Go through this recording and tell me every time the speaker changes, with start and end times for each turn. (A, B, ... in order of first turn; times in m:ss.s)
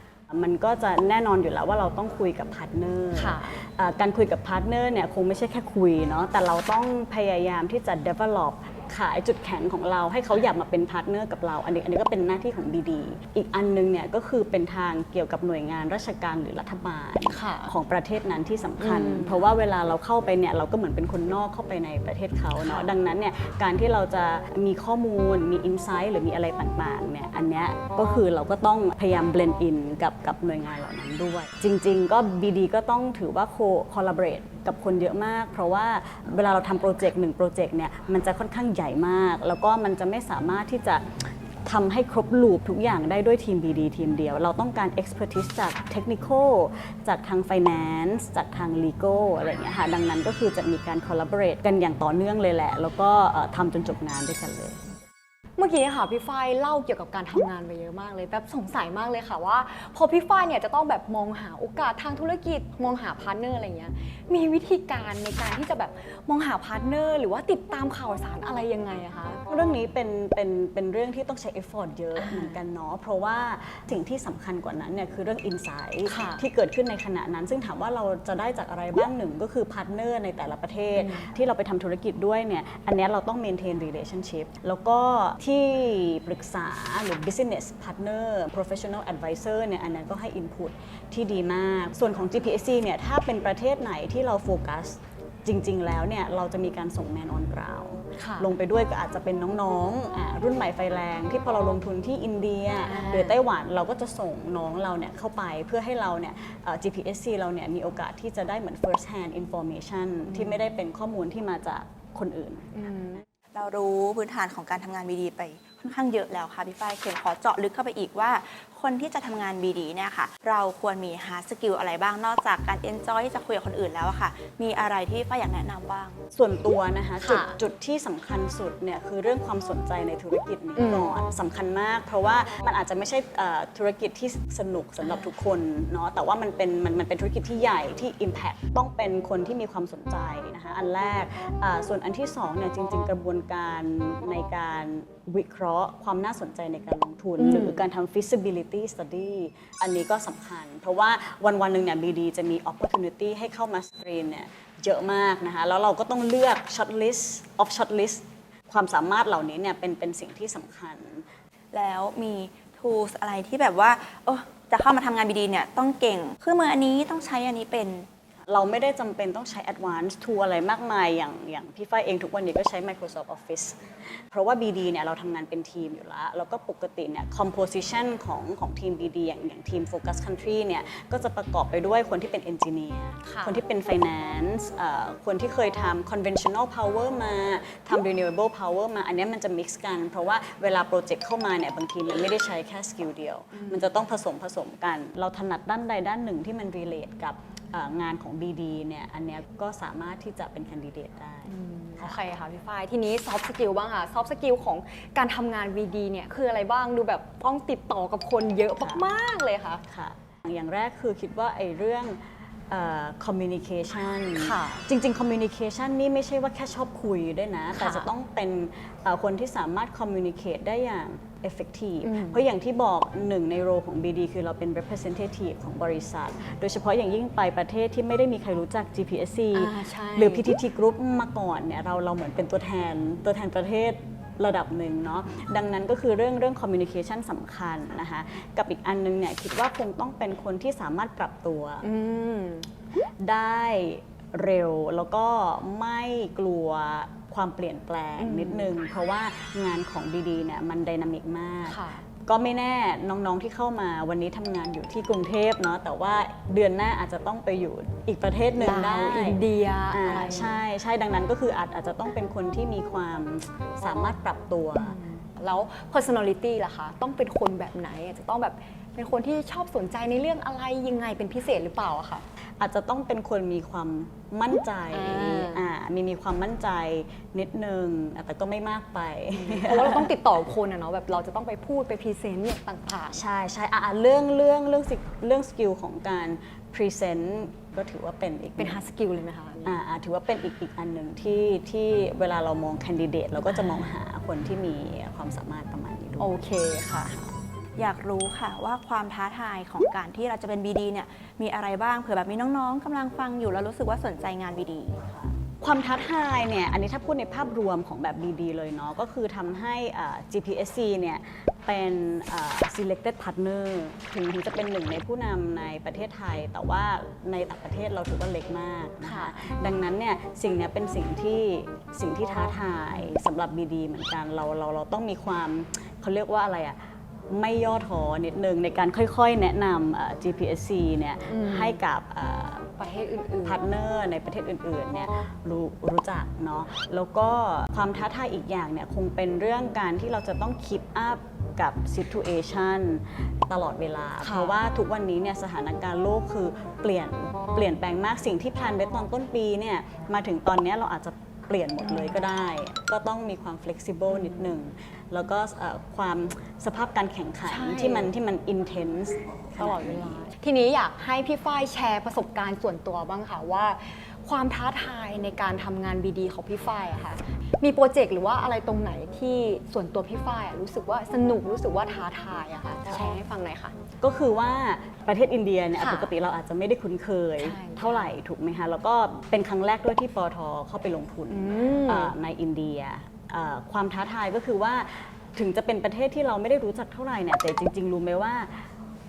0:00.3-0:54.8 A
0:03.1-0:03.6 B
0:17.2-0:17.7 B
0:18.8-0:19.4 B
0:22.6-0:22.9 B
0:55.6-1:09.4 B
1:09.5-1:52.8 A
1:12.2-1:12.6 B
1:16.1-1:16.4 B
1:21.0-1:21.3 B
1:38.2-1:38.5 B
1:42.8-1:43.4 B
1:50.3-1:50.6 B
1:52.7-1:53.2 B
1:53.5-2:06.2 C
2:06.3-2:41.2 A
2:07.2-2:07.6 B
2:10.8-2:11.1 B
2:27.4-2:27.9 B
2:41.7-2:48.1 C
2:48.5-3:22.2 A
3:03.2-3:03.6 B
3:13.5-3:14.0 B
3:21.5-3:29.8 B
3:28.8-3:29.0 A
3:29.9-4:01.9 A
3:34.4-3:34.8 B
3:37.7-3:38.1 B
3:42.0-3:42.4 B
3:49.5-3:50.5 B
4:01.8-4:02.7 B
4:03.2-4:25.0 A
4:08.2-4:08.7 B
4:11.7-4:12.0 B
4:18.6-4:20.6 B
4:24.8-4:32.2 B
4:32.6-4:40.1 A
4:34.9-4:35.6 B
4:39.3-4:43.2 B
4:43.1-4:48.8 A
4:48.6-4:49.7 B
4:49.6-4:56.3 A
4:56.2-4:57.2 B
4:57.1-4:57.3 A
4:57.8-5:05.0 C
5:05.0-5:32.7 A
5:19.0-5:19.4 B
5:31.3-5:31.8 B
5:32.8-5:33.6 B
5:33.4-6:00.2 A
5:44.2-5:44.6 B
5:51.8-5:52.1 B
5:54.1-5:54.6 B
5:57.4-5:58.1 B
5:59.6-6:13.7 B
6:12.9-6:13.2 A
6:14.0-6:28.7 A
6:15.8-6:16.1 B
6:17.4-6:18.1 B
6:21.3-6:22.1 B